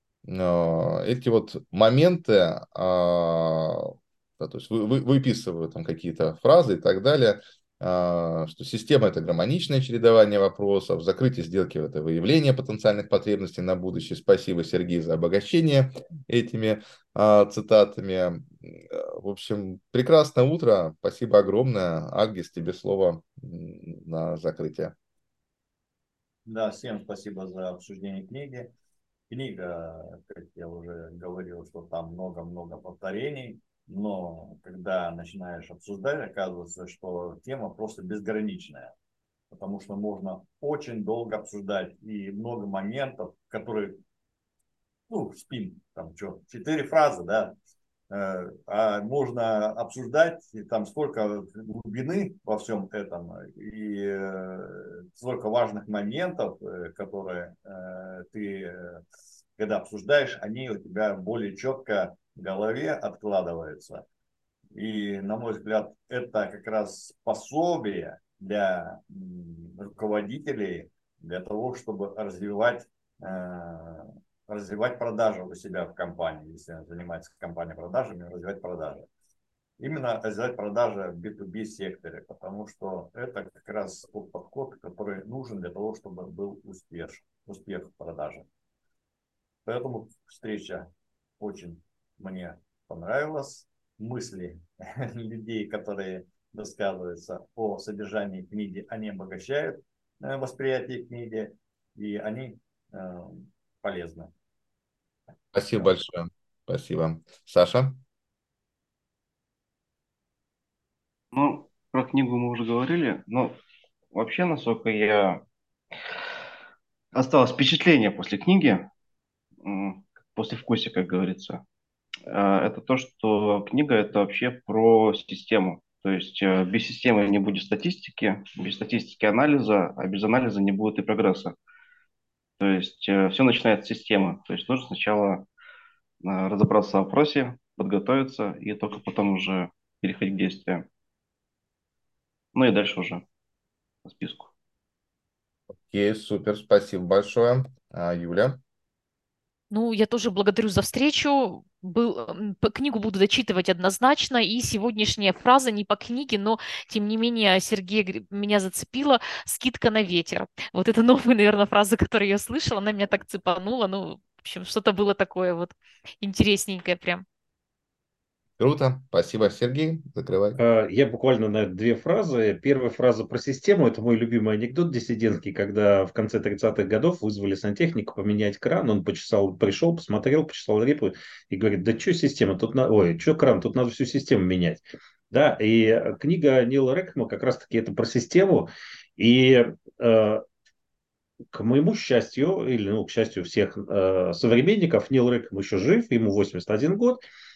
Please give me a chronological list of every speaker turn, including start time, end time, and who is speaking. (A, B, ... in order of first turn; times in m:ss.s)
0:00.2-0:24.9 A
0:26.5-0:28.7 B
0:29.3-0:38.9 B
0:39.5-0:44.0 B
0:45.1-0:47.6 B
0:48.1-0:59.0 B
0:59.6-1:04.0 B
1:04.8-1:19.1 B
1:19.8-1:28.5 B
1:29.6-1:30.9 B
1:31.4-1:44.3 B
1:45.5-1:48.0 A
1:51.3-1:53.6 C
1:54.1-1:55.4 C
1:57.1-1:58.9 C
1:59.6-2:01.6 C
2:02.3-2:11.6 C
2:12.6-2:15.5 C
2:16.2-2:20.9 C
2:22.5-2:23.2 C
2:24.0-2:24.5 C
2:25.9-2:28.6 A
2:29.7-2:47.2 D
2:48.6-2:50.6 A
2:50.6-3:10.4 E
3:11.5-3:17.2 E